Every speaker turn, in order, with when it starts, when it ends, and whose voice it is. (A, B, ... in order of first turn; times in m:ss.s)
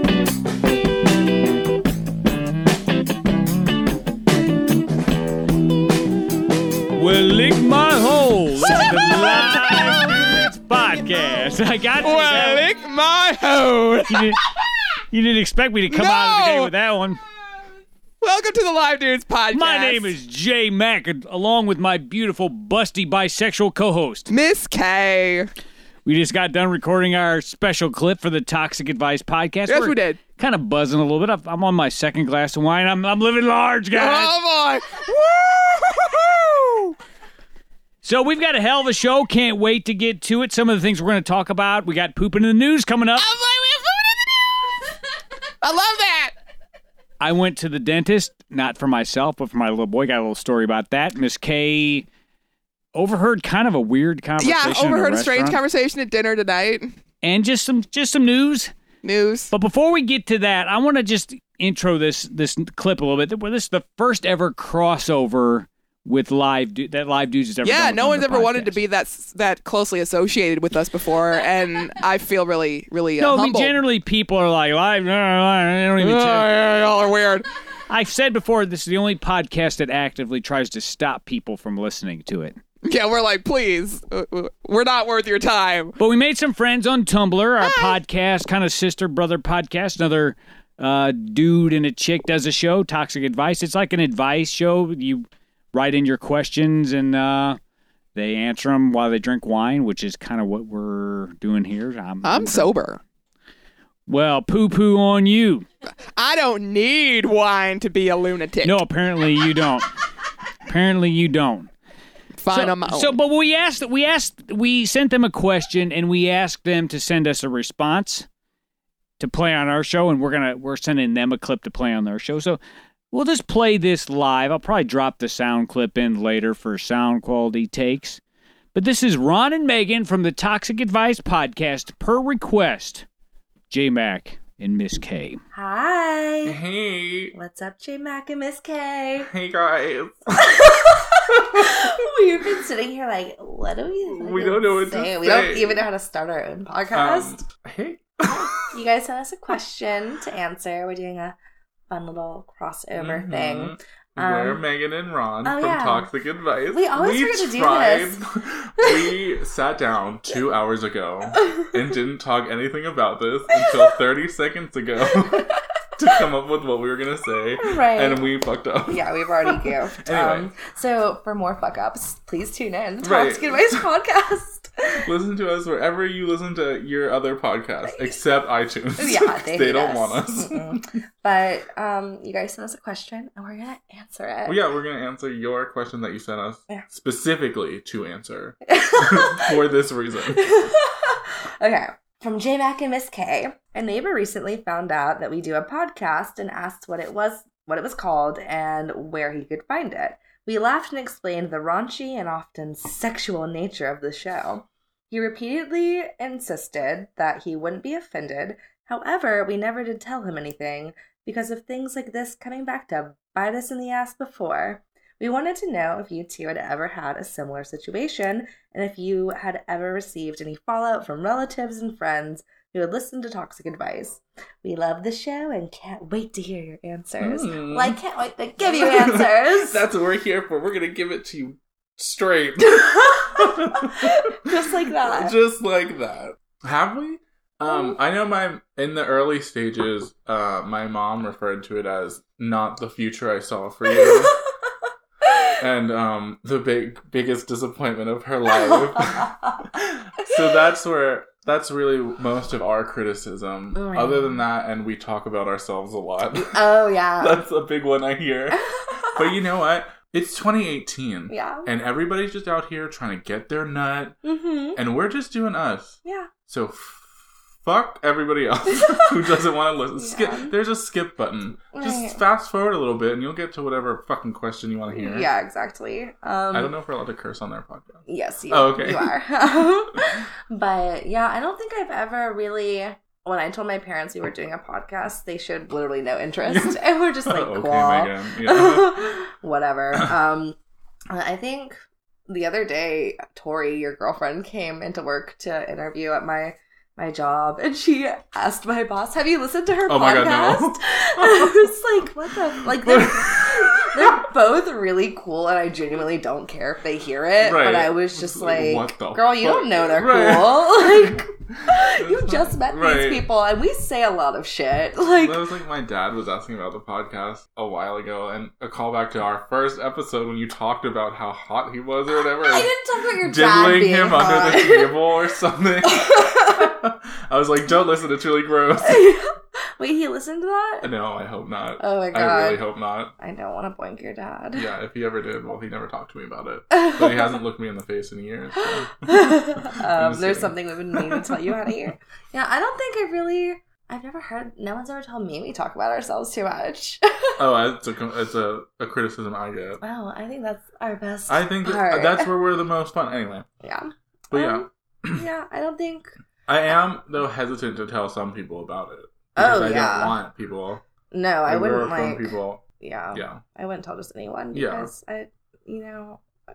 0:06.9-0:12.6 A
0:08.7-0:10.2 B
0:12.0-0:14.3 B
0:14.1-0:14.4 A
0:15.1-0:17.2 A
0:15.9-0:16.7 B
0:18.2-0:20.1 B
0:19.5-0:24.3 A
0:24.3-0:25.5 B
0:26.0-0:34.4 A
0:29.6-0:30.2 B
0:33.9-0:37.0 B
0:38.0-0:43.3 A
0:43.2-0:44.7 B
0:45.6-0:46.3 B
0:47.2-0:52.1 A
0:52.9-0:55.6 A
0:54.4-0:56.9 B
0:57.2-0:58.7 A
0:59.0-0:59.5 B
0:59.5-1:08.8 A
1:07.6-1:13.8 B
1:13.2-1:16.5 A
1:16.0-1:17.4 B
1:17.9-1:22.6 A
1:22.8-1:26.0 B
1:26.0-1:37.6 A
1:27.6-1:28.0 B
1:38.1-1:42.7 A
1:42.2-1:43.0 B
1:44.1-1:45.7 A
1:45.9-1:48.8 B
1:48.6-1:49.9 A
1:50.7-1:51.7 A
1:52.4-1:53.2 B
1:52.5-1:58.3 A
1:59.2-2:02.6 A
2:03.1-2:08.2 A
2:08.7-2:13.0 A
2:13.7-2:15.4 A
2:15.5-2:16.6 C
2:16.4-2:17.3 D
2:17.3-2:19.3 C
2:19.2-2:21.9 D
2:20.4-2:27.4 C
2:24.0-2:25.8 D
2:26.9-2:28.7 D
2:28.6-2:31.4 C
2:31.9-2:34.6 C
2:32.9-2:50.5 D
2:35.4-2:36.1 C
2:36.7-2:38.2 C
2:47.6-2:48.2 C
2:48.9-2:55.0 C
2:53.0-2:53.9 D
2:55.0-3:00.8 D
2:59.0-3:04.6 C
3:04.4-3:10.4 D
3:08.7-3:09.6 C
3:10.3-3:49.8 C
3:47.2-3:48.0 D
3:48.6-3:54.2 D
3:52.6-3:55.3 C
3:54.7-4:04.4 D
4:04.0-4:04.3 C
4:05.6-4:24.2 D
4:08.7-4:09.4 C
4:13.7-4:14.4 C
4:16.4-4:17.4 C
4:18.8-4:19.2 C
4:21.3-4:21.7 C
4:24.2-4:24.8 C
4:24.7-4:27.0 D
4:27.6-4:35.3 D
4:28.7-4:29.2 C
4:30.0-4:30.5 C
4:31.7-4:32.2 C
4:34.9-4:36.7 C
4:36.5-4:39.1 D
4:38.1-4:50.6 C
4:46.4-4:49.1 D
4:51.1-5:15.4 C
4:59.9-5:01.7 D
5:02.5-5:04.2 D
5:07.4-5:13.2 D
5:15.1-5:29.2 D
5:22.4-5:25.0 C
5:25.9-5:26.7 C
5:28.8-5:30.9 C
5:30.8-5:33.1 D
5:31.8-5:32.6 C
5:33.2-5:34.6 C
5:34.5-5:41.7 D
5:36.8-5:37.1 C
5:38.7-5:47.4 C
5:47.4-5:49.8 D
5:49.8-5:52.3 C
5:51.3-5:53.4 D
5:53.6-5:56.1 C
5:54.3-5:55.2 D
5:56.5-6:00.8 D
5:59.4-6:00.2 C
6:01.1-6:06.2 C
6:01.4-6:02.6 D
6:03.1-6:03.4 D
6:04.5-6:04.9 D